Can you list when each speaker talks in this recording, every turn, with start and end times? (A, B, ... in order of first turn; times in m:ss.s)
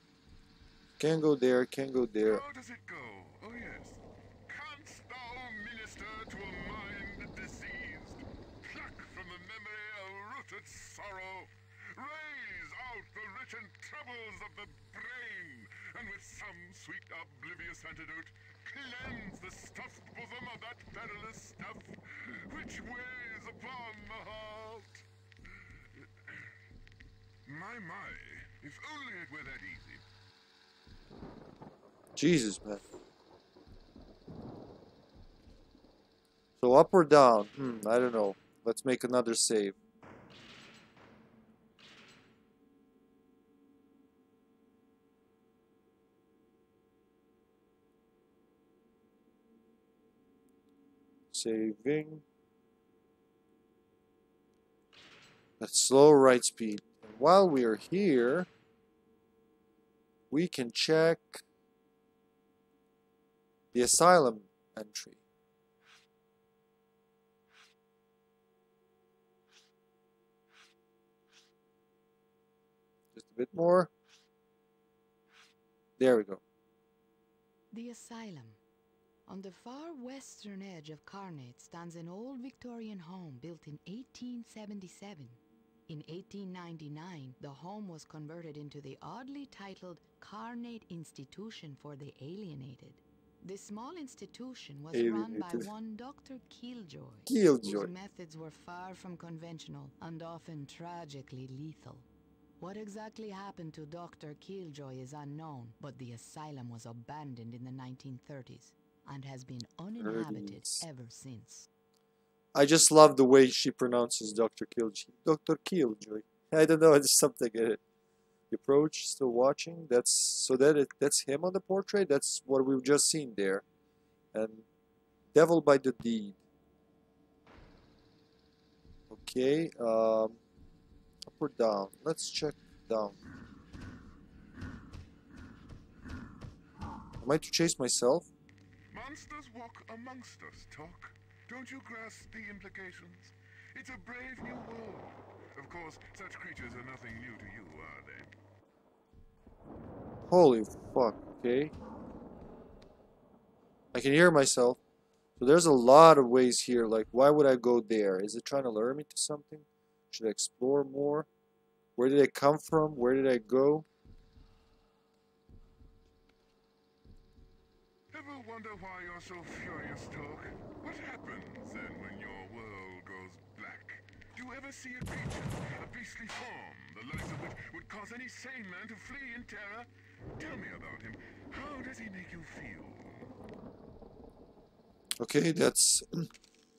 0:01.0-0:02.4 A
0:02.2-0:26.5 B
0:27.4-0:30.0 B
0:32.2-0:32.8 A
0:36.6-0:39.8 A
0:51.3-0:52.2 A
0:55.6-0:58.5 A
1:00.3-1:01.4 A
1:03.7-1:05.2 A
1:13.1-1:13.9 A
1:16.0-1:16.4 A
1:17.7-1:18.6 C
1:19.3-1:42.0 C
1:34.9-1:35.7 A
1:37.3-1:37.9 A
1:42.6-1:51.7 C
1:50.0-1:50.8 A
1:52.5-1:57.8 A
1:58.5-2:03.6 A
2:04.3-2:04.6 A
2:05.3-2:06.4 A
2:09.1-2:10.4 A
2:11.4-2:13.2 A
2:17.2-2:18.3 A
2:18.9-2:28.3 B
2:30.3-2:31.7 A
2:33.9-2:34.8 A
2:35.4-2:41.3 A
2:42.0-2:43.8 A
2:48.1-3:03.3 B
3:05.2-3:06.3 A